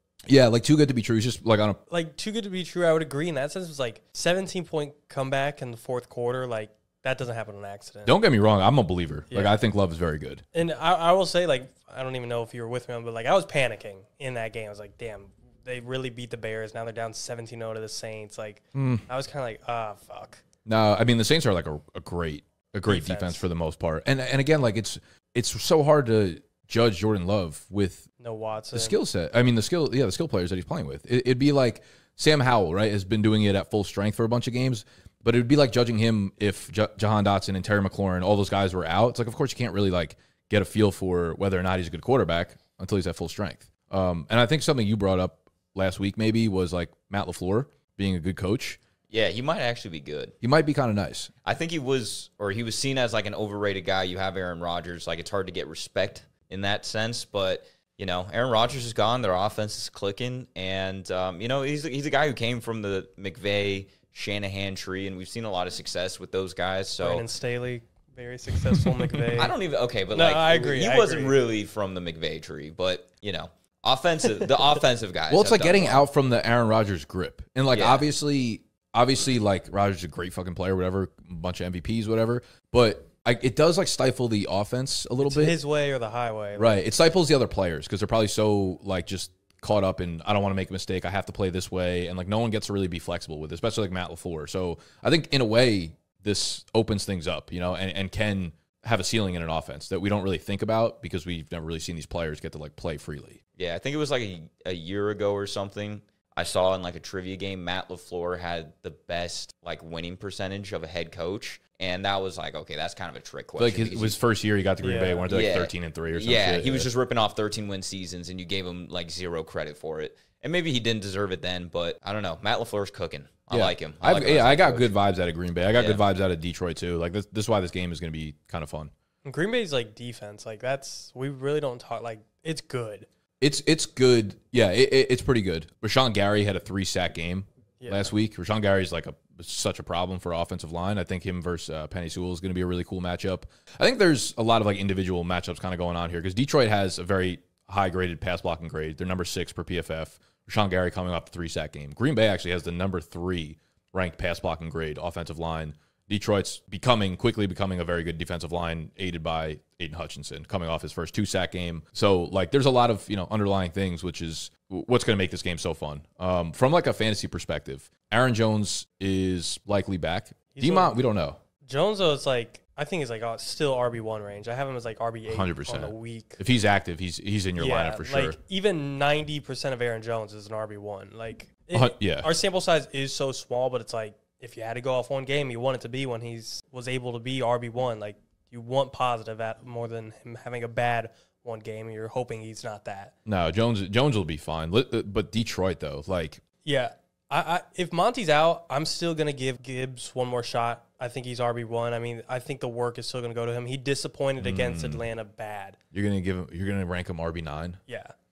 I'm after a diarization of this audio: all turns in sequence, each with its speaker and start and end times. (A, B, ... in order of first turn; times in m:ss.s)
0:00.3-0:01.8 A
0:01.9-0:08.1 B
0:08.0-0:10.4 A
0:09.3-0:09.6 B
0:10.5-0:20.4 B
0:18.7-0:19.0 A
0:20.6-0:28.1 A
0:22.9-0:23.4 B
0:28.2-0:29.0 B
0:28.7-0:48.8 A
0:49.1-0:50.3 C
0:50.4-0:51.3 A
0:51.4-1:07.3 C
1:07.0-1:09.5 B
1:08.8-1:09.2 A
1:09.3-1:16.0 C
1:10.1-1:11.4 B
1:15.3-1:25.6 A
1:17.7-1:18.0 C
1:25.2-1:26.8 B
1:26.6-1:43.4 A
1:43.6-1:54.2 C
1:53.6-1:56.9 A
1:54.8-1:55.3 B
1:55.3-2:04.9 C
2:03.5-2:08.9 A
2:05.7-2:06.0 C
2:09.2-2:13.1 B
2:13.4-2:51.4 A
2:17.8-2:18.1 B
2:50.5-2:51.0 B
2:51.6-2:56.4 B
2:55.2-2:58.4 A
2:57.6-3:13.1 B
3:01.7-3:02.3 A
3:13.2-3:16.4 A
3:16.6-3:25.8 B
3:24.4-3:25.0 A
3:25.9-3:27.8 A
3:27.9-3:28.1 B